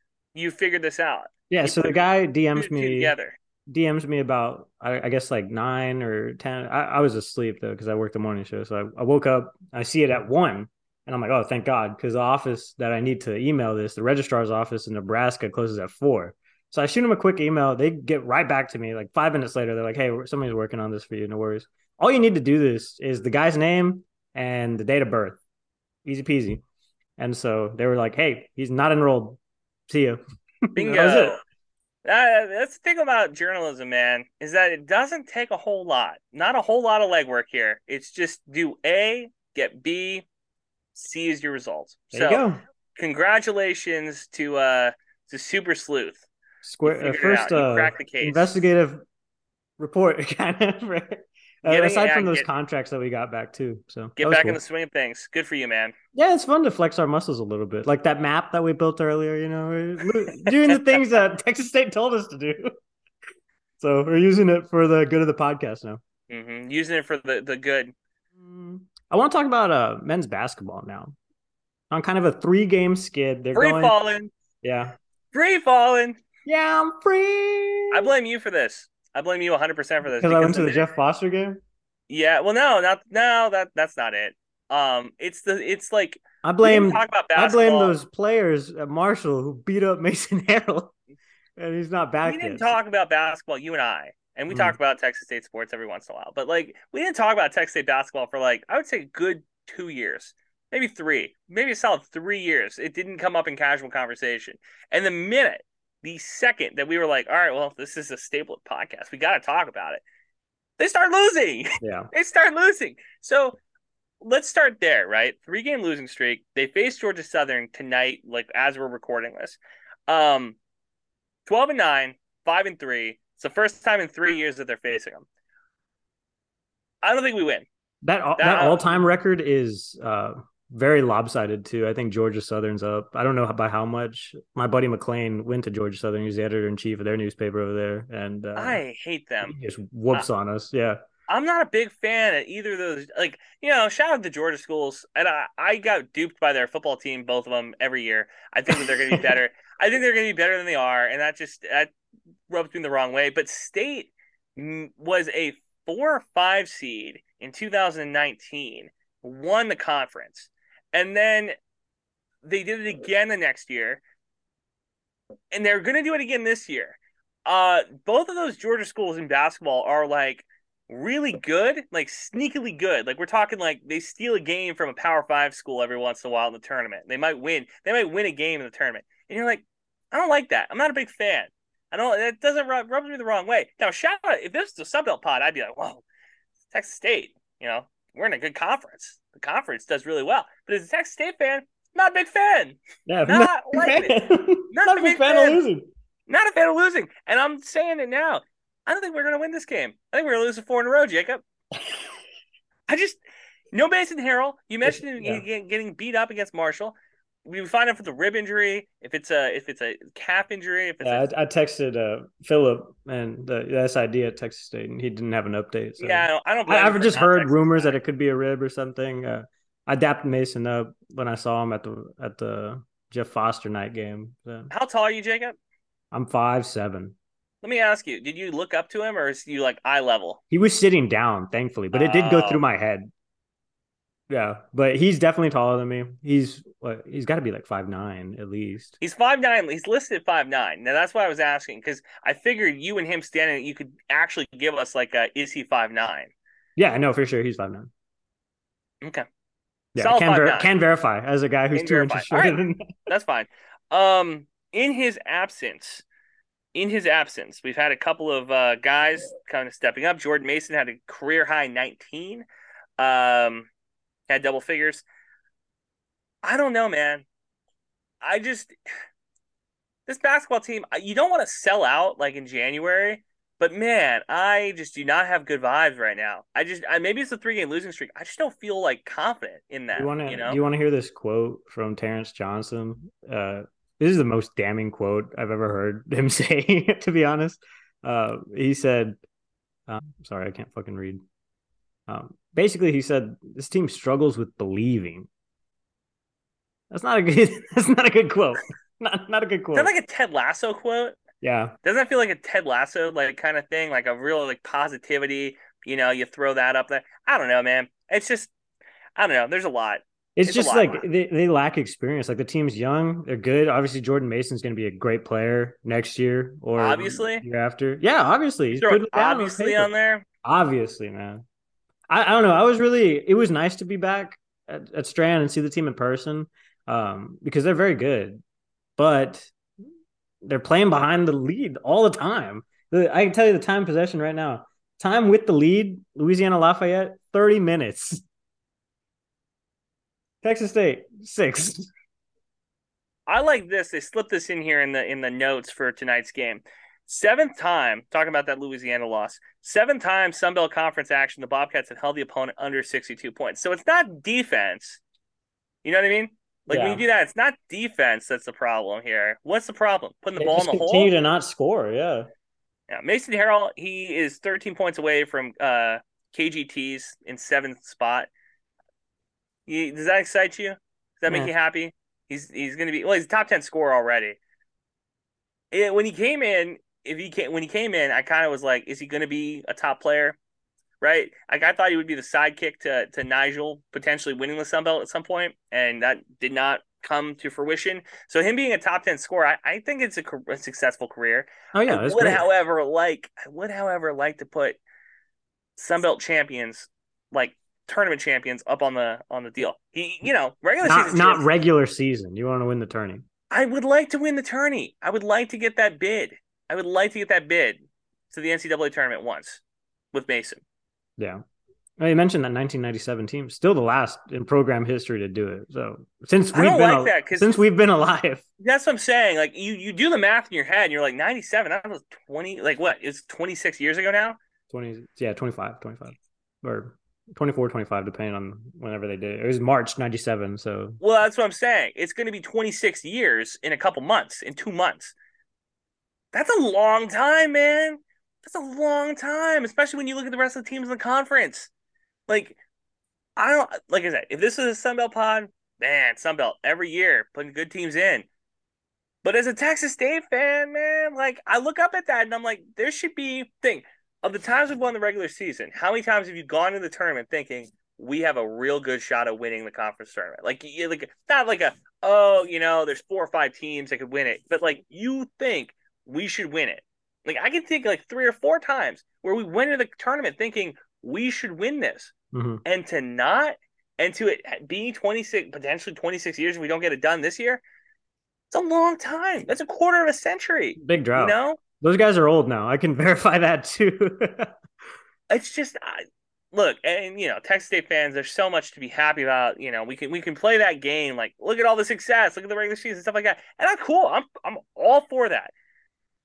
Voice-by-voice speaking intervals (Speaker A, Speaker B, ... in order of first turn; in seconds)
Speaker A: 0.3-3.4, 30.8-31.4, 32.0-40.3, 40.9-42.4, 42.9-46.2, 46.9-48.6, 51.6-52.5, 54.2-55.9, 60.5-60.8, 66.3-67.9, 73.5-74.3, 75.3-76.2, 77.9-80.8, 82.1-87.9, 92.2-110.0, 110.8-113.6, 114.2-120.6, 121.5-125.3, 127.0-127.7, 128.4-128.9, 138.6-139.6, 141.3-151.9, 152.5-161.6, 162.4-164.0, 165.5-186.0, 186.7-195.6, 196.3-201.4, 202.9-203.2, 203.7-211.3, 216.0-217.9, 224.7-225.6, 227.6-230.4, 231.9-232.6, 239.0-246.3, 250.0-250.7, 251.7-256.1, 256.7-262.5, 263.0-263.7, 264.3-265.1, 266.4-267.2, 268.2-268.8, 270.1-280.6, 299.7-301.2, 301.8-308.5, 309.2-311.0, 316.8-317.4, 318.8-320.2, 343.3-355.0, 355.8-361.1, 362.9-368.3, 369.7-374.4, 375.7-380.4, 381.0-394.8, 395.8-401.4, 403.5-409.6, 410.1-410.6, 416.5-417.6, 418.6-424.4, 431.0-435.1, 436.3-441.7, 442.3-442.6, 443.4-448.3, 449.2-472.1, 472.6-477.6, 478.5-481.6, 485.3-495.5
Speaker B: 1.5-3.1, 3.7-25.4, 26.1-26.6, 27.2-31.4, 42.1-42.6, 46.6-49.0, 49.8-54.6, 56.1-62.7, 63.8-66.0, 68.4-71.2, 71.9-73.9, 74.6-75.0, 76.5-78.1, 80.0-81.6, 86.4-90.9, 91.6-92.7, 94.5-94.8, 111.8-112.1, 128.0-138.8, 139.4-141.0, 148.8-149.2, 193.1-195.9, 204.8-205.4, 211.0-224.7, 226.1-227.1, 230.5-233.1, 234.3-239.0, 246.8-247.9, 249.9-253.1, 279.9-289.2, 289.9-291.2, 292.1-295.3, 296.9-299.9, 301.4-301.8, 310.4-319.9, 320.4-321.4, 322.1-328.4, 329.0-329.5, 330.4-338.2, 340.4-341.9, 356.7-357.1, 360.4-362.3, 391.7-392.4, 400.8-403.2, 412.0-418.4, 424.7-431.0, 472.3-472.6, 480.8-484.5